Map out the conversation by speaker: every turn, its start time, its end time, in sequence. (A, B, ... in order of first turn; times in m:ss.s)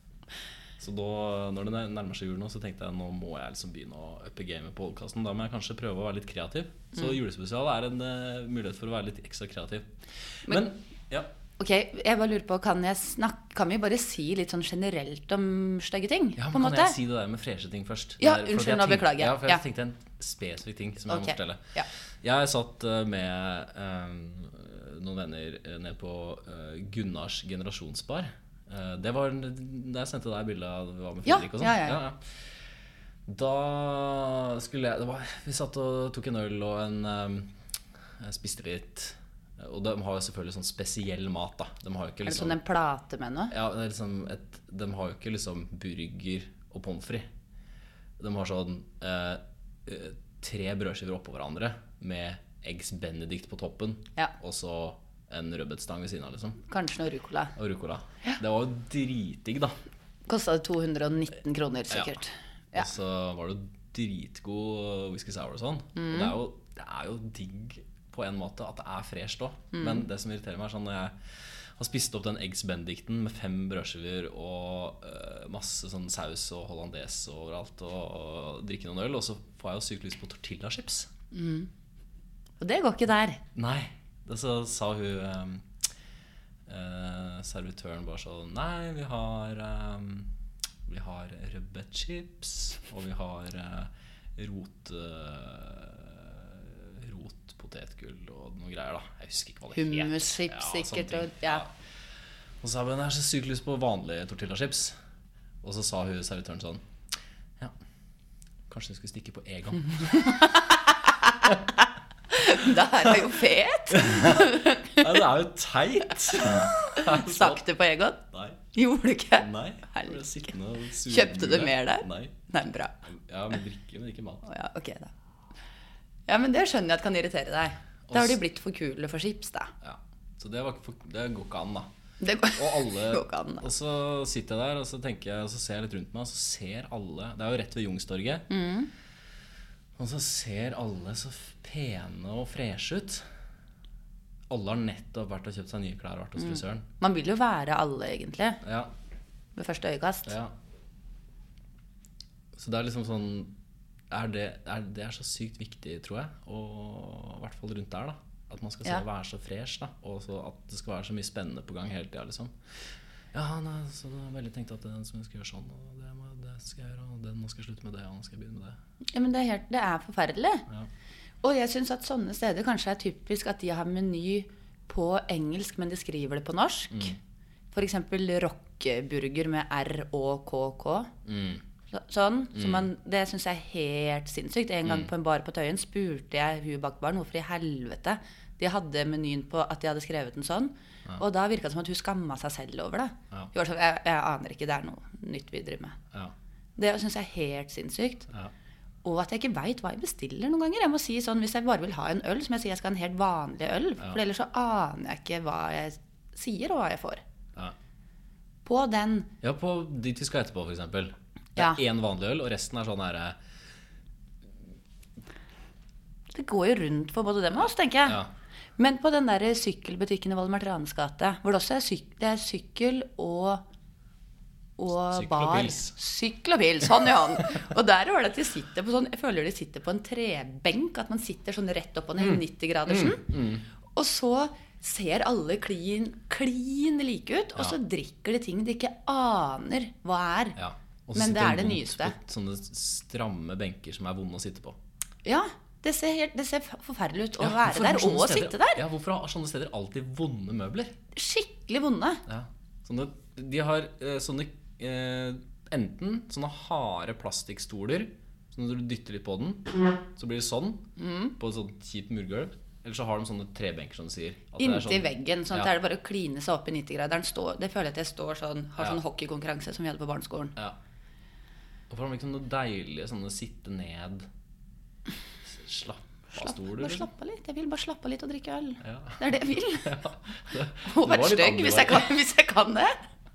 0:00.8-0:11.3 A
0:11.6-0:17.0 B
0:16.4-0:32.5 A
0:18.2-0:19.6 B
0:21.1-0:21.9 B
0:31.2-0:32.0 B
0:33.3-0:37.5 A
0:38.2-0:42.6 A
0:42.2-0:43.5 B
0:43.5-0:47.3 A
0:48.2-0:56.6 A
0:56.7-0:57.6 B
0:57.6-0:59.8 A
1:00.3-1:02.9 B
1:02.7-1:11.2 A
1:06.0-1:06.3 B
1:09.7-1:10.0 B
1:11.8-1:21.1 A
1:21.3-1:21.7 B
1:22.6-1:23.4 B
1:23.6-1:25.7 A
1:26.7-1:30.3 A
1:30.9-1:41.7 A
1:39.7-1:41.6 B
1:42.6-1:44.9 A
1:45.6-1:46.8 A
1:48.7-1:50.6 A
1:50.0-1:55.2 B
1:52.4-1:53.1 A
1:53.9-1:57.6 A
1:56.3-2:00.2 B
1:58.3-1:58.6 A
1:59.4-2:02.4 A
2:01.0-2:03.0 B
2:03.1-2:04.5 A
2:04.4-2:05.1 B
2:06.3-2:09.7 B
2:08.1-2:08.4 A
2:09.8-2:11.9 A
2:12.2-2:13.7 B
2:12.6-2:18.5 A
2:18.5-2:18.9 B
2:20.0-2:23.2 A
2:24.5-2:26.8 A
2:26.4-2:28.6 B
2:28.6-2:28.9 A
2:29.6-2:30.3 B
2:30.3-2:30.5 A
2:32.5-2:33.6 A
2:34.1-2:42.6 A
2:43.3-2:48.8 A
2:49.1-2:50.7 B
2:51.4-2:57.2 B
2:57.7-3:01.1 B
3:01.2-3:01.6 A
3:01.9-3:16.0 B
3:02.6-3:02.9 A
3:16.8-3:18.3 B
3:19.0-3:27.2 B
3:28.6-3:29.3 B
3:29.4-3:33.4 A
3:36.3-3:38.2 B
3:38.8-3:43.6 B
3:44.8-3:53.3 B
3:45.1-3:45.9 A
3:52.2-3:53.7 A
3:53.9-4:00.6 B
4:00.6-4:04.8 A
4:01.2-4:02.2 B
4:05.2-4:08.8 B
4:07.4-4:11.0 A
4:11.1-4:12.2 B
4:12.3-4:25.7 A
4:21.0-4:21.4 B
4:24.6-4:30.6 B
4:31.9-4:34.3 A
4:35.4-4:37.1 A
4:36.4-4:40.0 B
4:38.8-4:42.1 A
4:40.8-4:43.0 B